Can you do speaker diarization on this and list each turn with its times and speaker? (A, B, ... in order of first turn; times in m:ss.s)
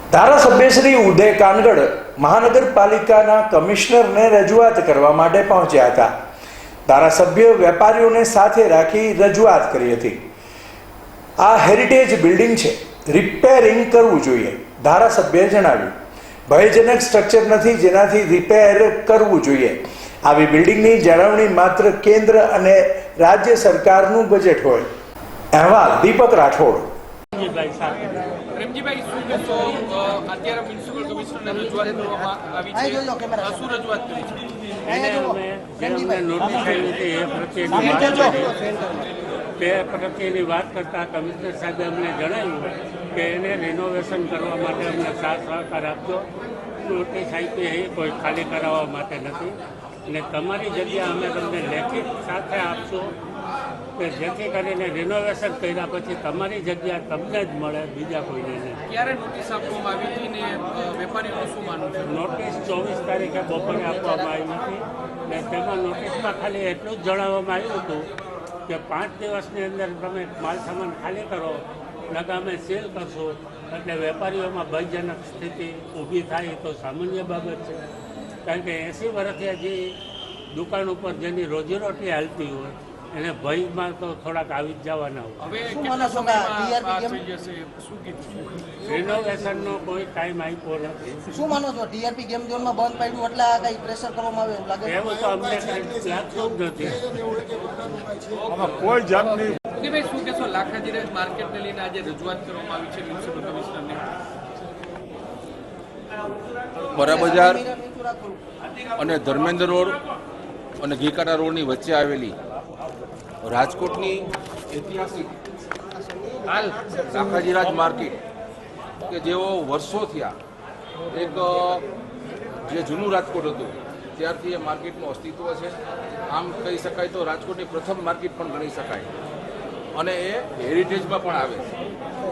0:00.1-0:06.1 A
0:06.9-0:10.2 A
0:11.4-0:15.9 A
0:16.5-0:24.9 A
0:25.5-0:26.9 A
0:27.3-0:28.4 B
0:28.5-0:34.4 C
0:32.7-0:33.7 D
0:34.9-0:38.6 B
0:34.9-0:36.3 D
0:37.8-0:38.7 D
0:39.6-0:46.3 B
0:46.8-0:49.6 B
0:50.1-0:53.1 B
0:54.0-0:58.8 B
0:58.9-1:02.2 C
1:02.1-1:08.1 B
1:08.7-1:17.8 B
1:18.4-1:20.0 B
1:20.5-1:25.5 B
1:25.4-1:29.2 C
1:25.7-1:27.2 D
1:28.8-1:31.0 B
1:31.3-1:35.1 D
1:34.8-1:37.4 B
1:37.5-1:44.2 C
1:46.9-1:47.7 E
1:46.9-1:48.4 D
1:49.0-1:50.0 E
1:50.8-1:52.4 E
1:53.4-1:55.4 E
1:56.6-1:58.2 E
1:59.0-2:00.4 E
2:01.1-2:01.8 E
2:02.6-2:05.8 E
2:06.3-2:09.1 E
2:10.0-2:11.7 E